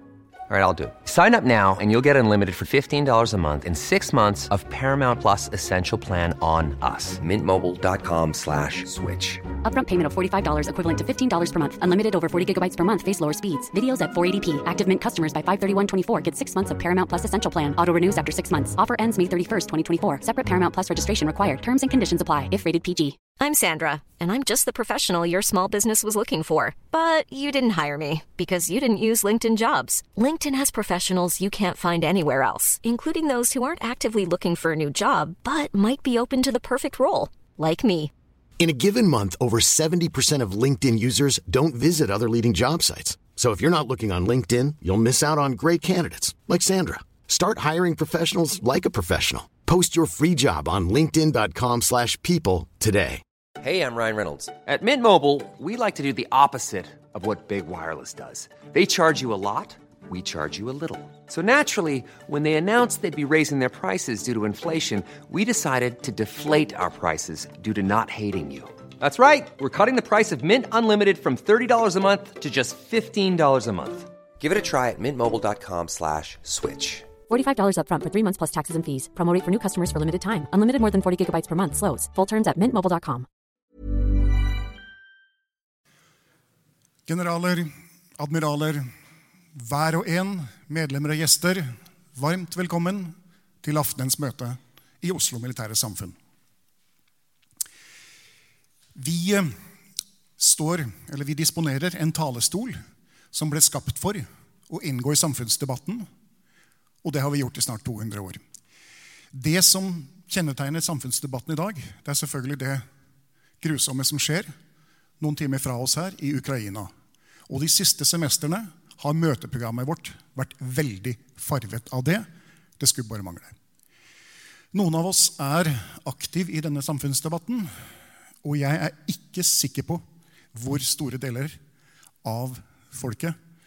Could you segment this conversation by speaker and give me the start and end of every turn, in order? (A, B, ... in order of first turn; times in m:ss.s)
0:00.5-0:09.4 A
0:09.6-0:23.2 B
0:23.4-0:38.1 C
0:38.6-0:53.2 D
0:53.6-1:17.1 A
1:17.3-1:23.3 B
1:27.1-1:28.9 E
1:29.5-1:36.2 E
1:39.0-1:39.6 E
1:40.4-1:42.8 E
1:43.3-1:46.1 E
1:47.0-1:48.4 E
1:49.3-1:52.9 E
1:53.6-1:54.5 E
1:55.2-1:56.9 E
1:57.5-2:03.6 E
2:04.7-2:11.6 E
2:12.2-2:13.4 E